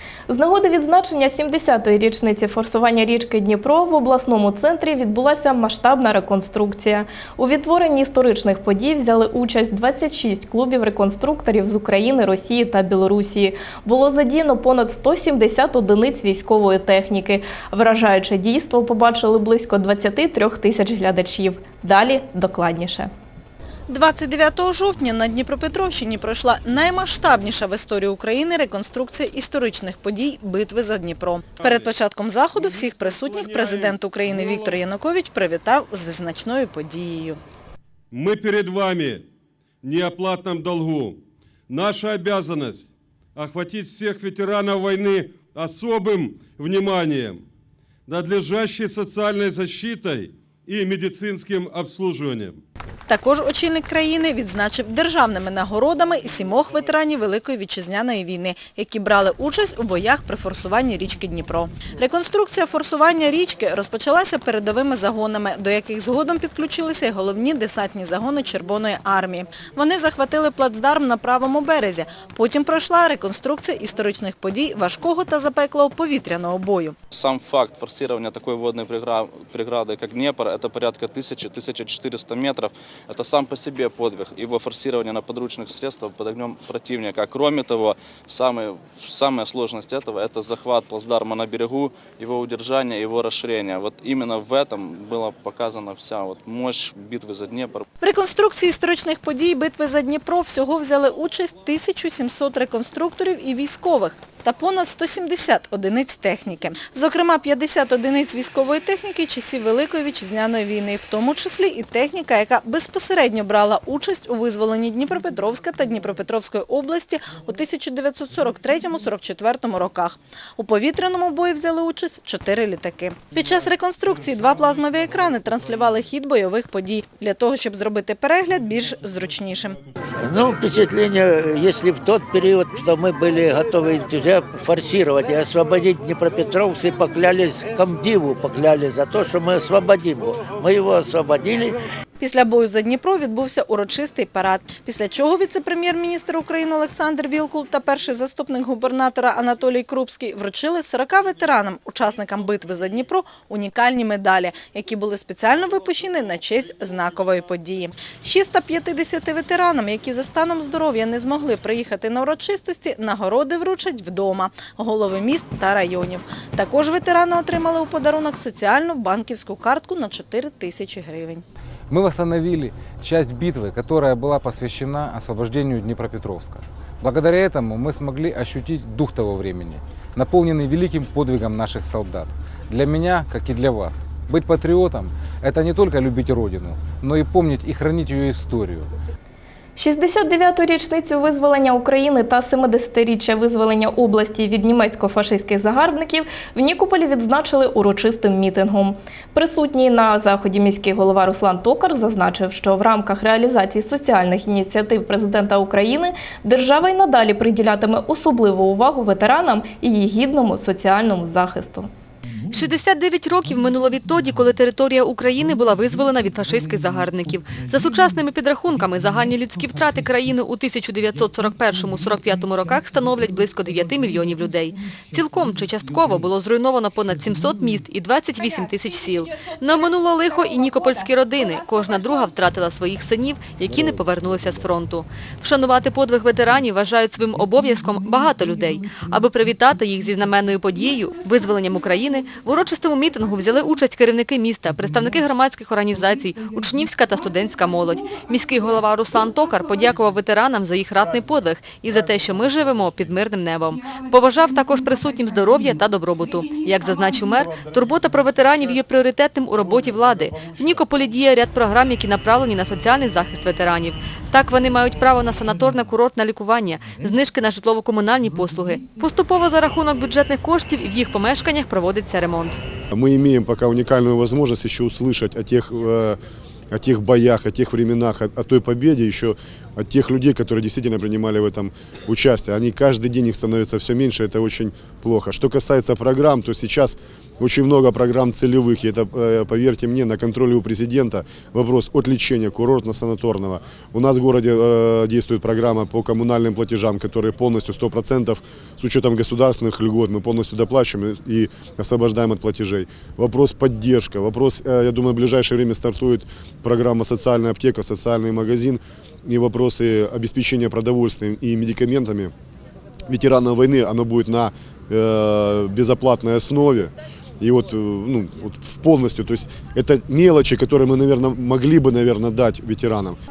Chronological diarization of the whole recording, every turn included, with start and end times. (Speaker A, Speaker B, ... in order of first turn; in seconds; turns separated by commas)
Speaker A: 0.3-23.1, Speaker B: 23.9-37.4, Speaker C: 38.1-39.2, Speaker C: 39.8-41.2, Speaker C: 41.7-47.4, Speaker C: 48.1-52.6, Speaker B: 53.1-76.9, Speaker D: 77.1-97.8, Speaker B: 98.0-129.8, Speaker E: 130.2-141.8, Speaker B: 142.2-171.4, Speaker F: 171.9-188.9, Speaker A: 189.8-211.9, Speaker G: 212.5-272.6, Speaker H: 272.9-276.2, Speaker H: 276.7-312.3, Speaker H: 313.1-323.2